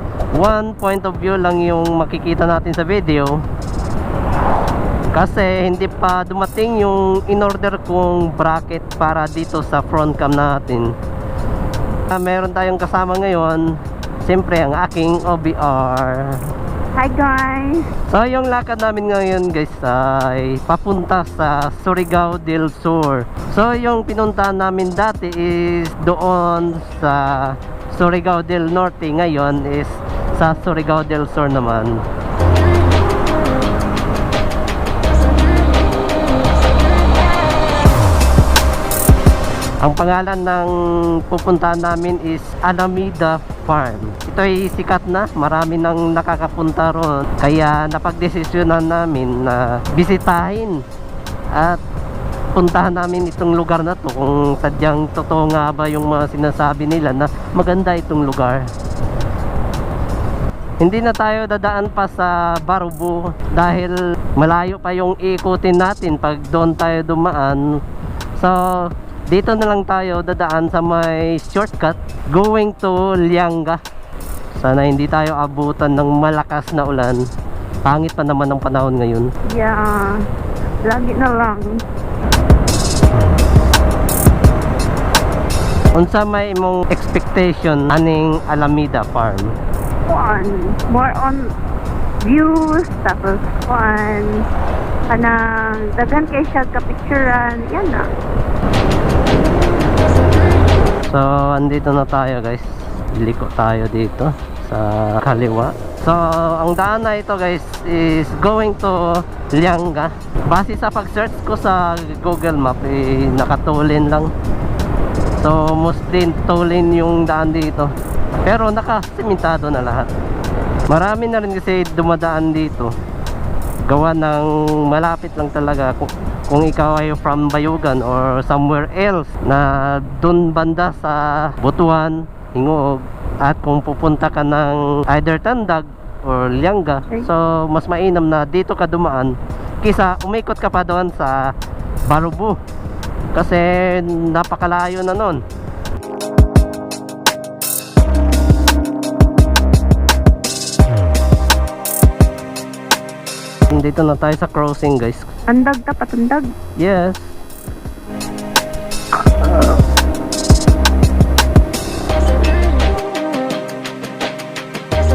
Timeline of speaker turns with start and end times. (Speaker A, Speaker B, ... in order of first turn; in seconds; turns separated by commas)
Speaker A: 0.3-3.4, Speaker A: 5.1-10.9, Speaker A: 12.1-13.7, Speaker A: 14.2-16.4, Speaker B: 17.0-17.9, Speaker A: 18.1-32.0, Speaker A: 39.8-50.8, Speaker A: 51.5-51.8, Speaker A: 52.6-58.7, Speaker A: 60.8-67.8, Speaker A: 68.4-68.8, Speaker A: 69.3-73.8, Speaker A: 74.6-77.2, Speaker A: 77.8-79.3, Speaker B: 79.5-80.2, Speaker B: 80.8-81.8, Speaker A: 86.0-89.5, Speaker B: 90.1-91.5, Speaker B: 92.2-94.4, Speaker B: 95.1-98.1, Speaker A: 101.1-114.3, Speaker A: 115.4-117.9, Speaker A: 118.5-120.1, Speaker A: 120.9-122.9, Speaker A: 123.9-141.5, Speaker A: 142.1-142.6, Speaker A: 143.3-145.4, Speaker A: 153.7-155.3, Speaker B: 155.5-156.5, Speaker A: 156.8-157.4